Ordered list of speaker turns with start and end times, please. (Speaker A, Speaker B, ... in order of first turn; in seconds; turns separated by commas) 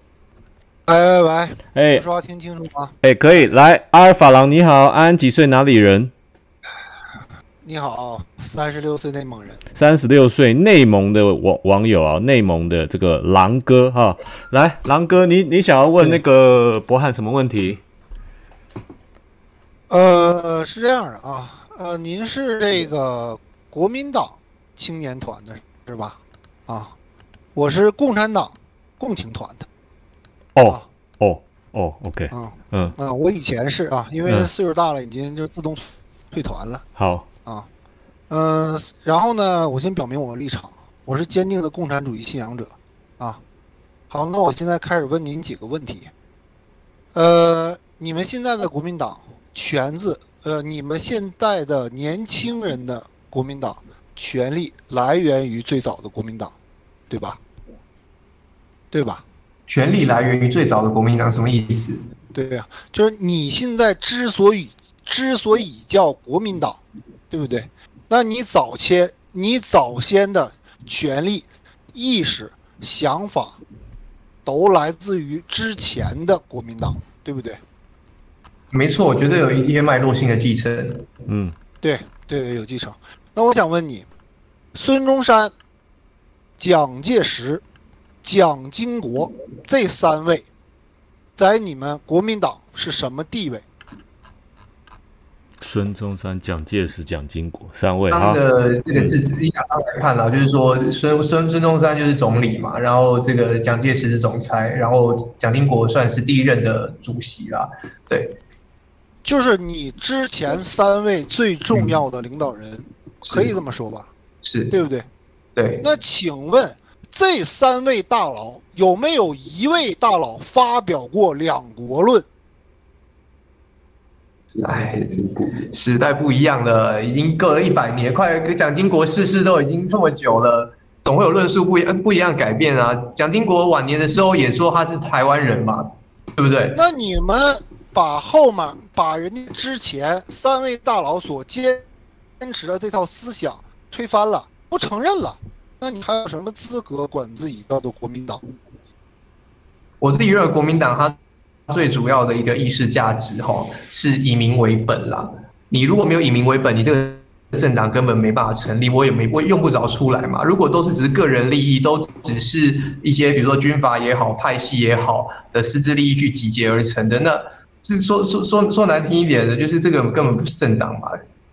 Speaker A: 0.9-3.5, Speaker B: 1.7-2.1, Speaker B: 3.0-6.1, Speaker A: 7.6-9.6, Speaker B: 9.8-17.8, Speaker A: 19.9-26.9, Speaker A: 27.6-29.7, Speaker B: 30.6-32.9, Speaker A: 32.3-36.8, Speaker B: 34.2-34.5, Speaker B: 37.0-37.3, Speaker A: 38.3-43.4, Speaker A: 44.1-46.1, Speaker A: 47.1-56.5, Speaker A: 57.1-57.4, Speaker A: 58.9-59.2, Speaker C: 59.7-62.0, Speaker A: 62.3-73.6, Speaker A: 74.5-77.6, Speaker C: 78.7-81.1, Speaker B: 81.3-81.5, Speaker A: 81.8-84.1, Speaker A: 84.8-85.5, Speaker A: 86.6-87.6, Speaker A: 88.2-90.5, Speaker A: 91.4-93.7, Speaker B: 95.6-98.4, Speaker C: 98.1-108.3, Speaker A: 109.2-114.1, Speaker C: 113.3-113.5, Speaker C: 114.4-114.7, Speaker A: 114.7-115.1, Speaker C: 115.5-115.9, Speaker A: 115.8-122.3, Speaker C: 124.5-135.8, Speaker C: 136.4-136.8, Speaker A: 136.7-141.8, Speaker A: 142.4-148.4, Speaker C: 150.0-151.2, Speaker C: 151.7-171.2